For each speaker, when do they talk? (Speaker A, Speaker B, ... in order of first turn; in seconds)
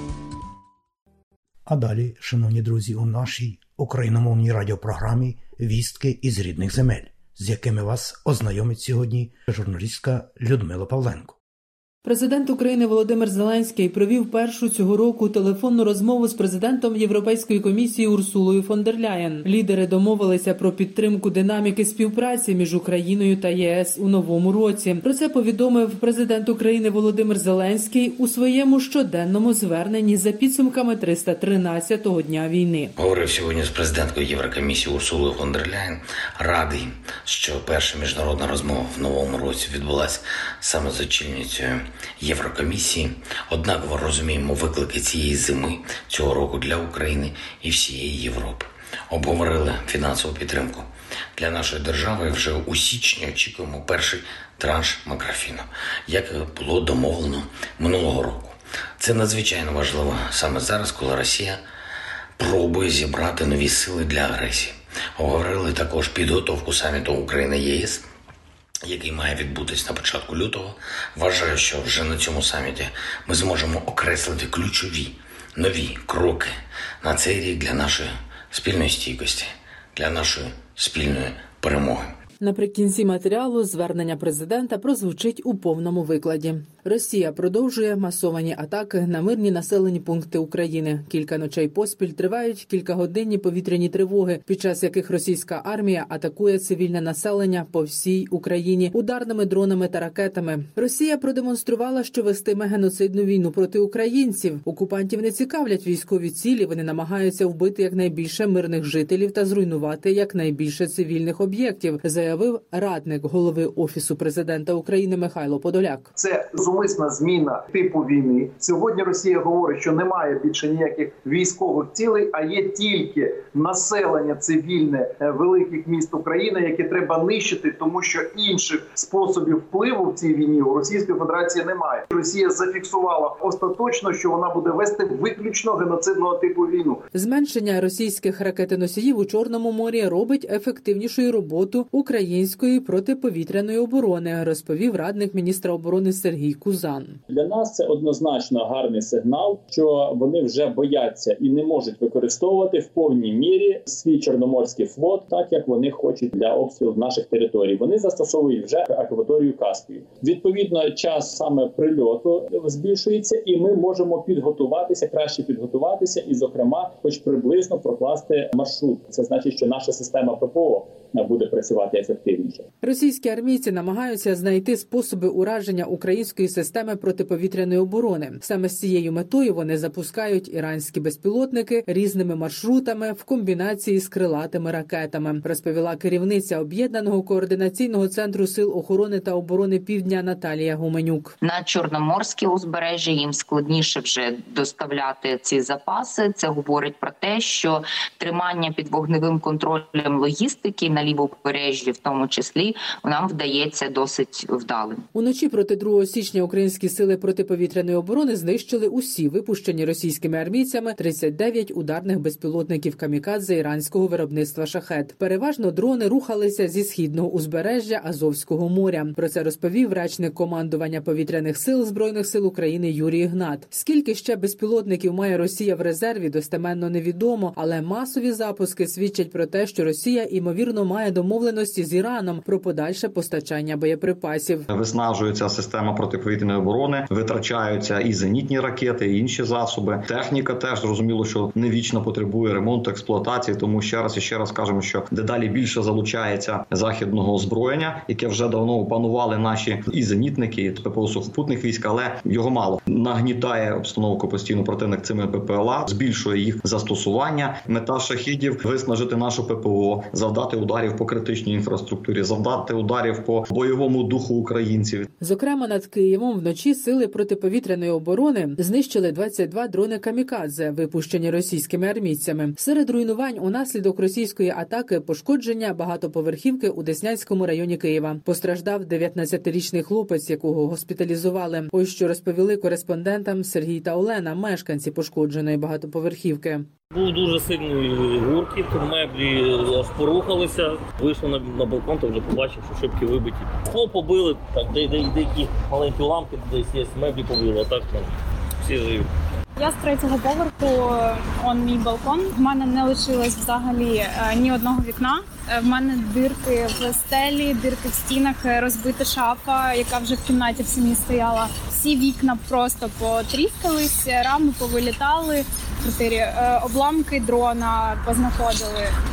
Speaker A: 1.7-11.3
Speaker B: 12.0-32.9, 82.4-116.1, 137.1-147.2, 172.8-191.3, 205.1-234.7, 265.2-286.7
Speaker C: 33.0-61.6, 62.4-68.0, 68.8-82.1
Speaker D: 116.2-137.0
Speaker E: 147.3-172.6
Speaker F: 191.4-205.0
Speaker G: 234.7-265.1
Speaker H: 286.9-298.1, 298.6-299.1
Speaker I: 299.6-318.9